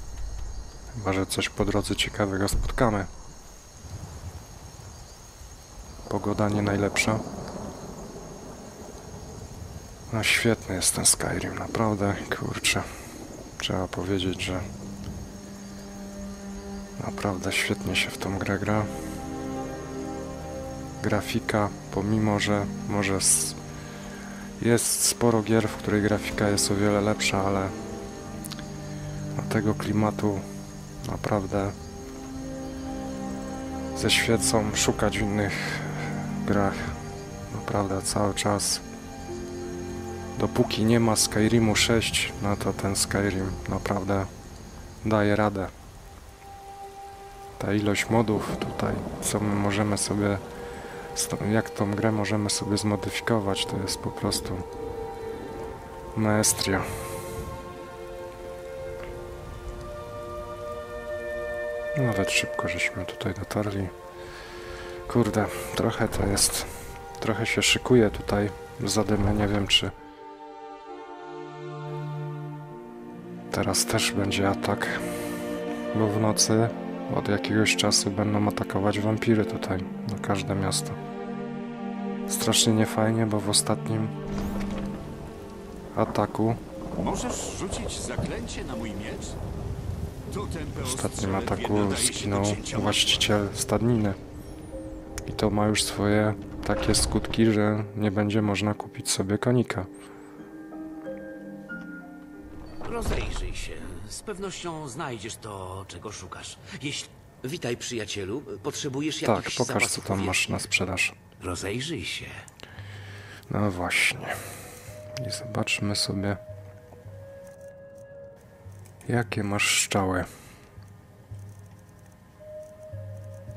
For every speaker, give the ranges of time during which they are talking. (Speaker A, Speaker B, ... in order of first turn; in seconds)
Speaker A: 0.9-3.1, 6.1-7.2, 10.1-12.9, 13.6-14.6, 17.0-18.9, 21.0-23.6, 24.6-27.7, 29.4-30.4, 31.0-31.8, 33.9-38.8, 40.4-44.3, 45.0-45.7, 47.6-50.4, 51.1-54.6, 56.1-56.9, 61.9-63.9, 65.1-69.9, 73.5-75.3, 75.9-81.0, 82.3-84.1, 85.9-86.6, 90.8-94.2, 95.2-99.9, 109.2-111.2, 113.5-114.4, 115.2-116.4, 119.0-120.3
Speaker B: 87.0-89.4, 90.3-93.3
Speaker C: 102.8-110.5, 111.4-112.4